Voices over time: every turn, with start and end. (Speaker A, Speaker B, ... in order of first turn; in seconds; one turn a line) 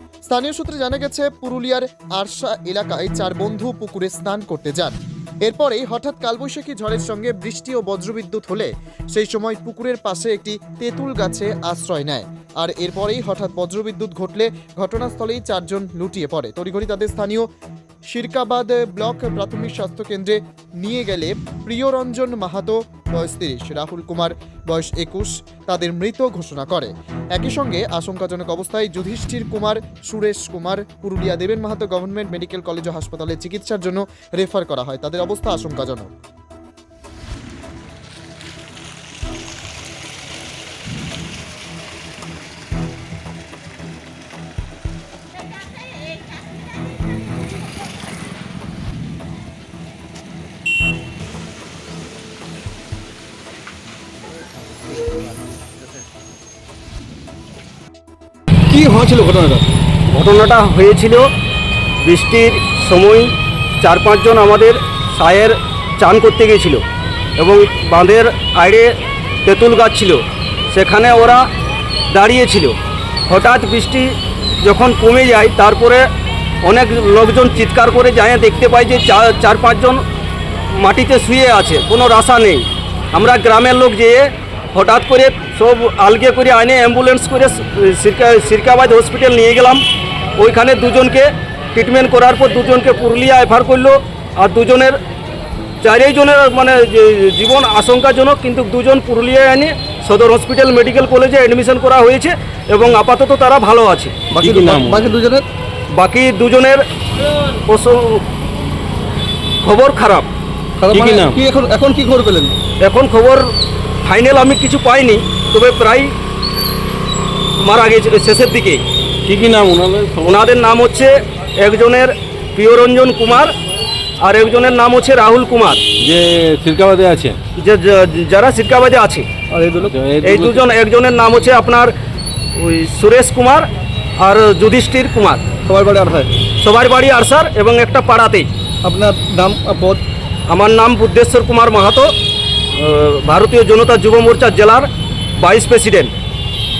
Speaker A: 0.2-17.5
Speaker A: 18.1-36.1
Speaker B: 58.7-59.6
Speaker C: 60.1-61.3
Speaker C: 62.0-66.8
Speaker C: 67.4-68.9
Speaker C: 69.4-71.4
Speaker C: 72.1-72.8
Speaker C: 73.3-76.0
Speaker C: 76.6-80.0
Speaker C: 80.7-89.8
Speaker C: 90.4-95.0
Speaker C: 95.8-104.2
Speaker D: 104.3-105.1
Speaker B: 104.3-105.5
Speaker C: 106.0-106.8
Speaker C: 107.7-108.2
Speaker C: 109.6-110.3
Speaker B: 110.8-112.6
Speaker D: 110.9-111.4
Speaker C: 112.8-113.4
Speaker C: 114.0-116.1
Speaker C: 117.6-118.8
Speaker D: 119.2-120.4
Speaker C: 120.2-123.5
Speaker C: 124.2-125.8
Speaker D: 126.0-127.4
Speaker C: 127.6-129.3
Speaker B: 129.5-129.9
Speaker D: 129.8-130.7
Speaker C: 130.2-131.9
Speaker C: 132.6-133.7
Speaker C: 134.2-135.5
Speaker B: 135.6-136.4
Speaker C: 136.6-138.5
Speaker B: 138.8-140.0
Speaker C: 140.5-142.1
Speaker C: 142.8-144.9
Speaker C: 145.4-146.1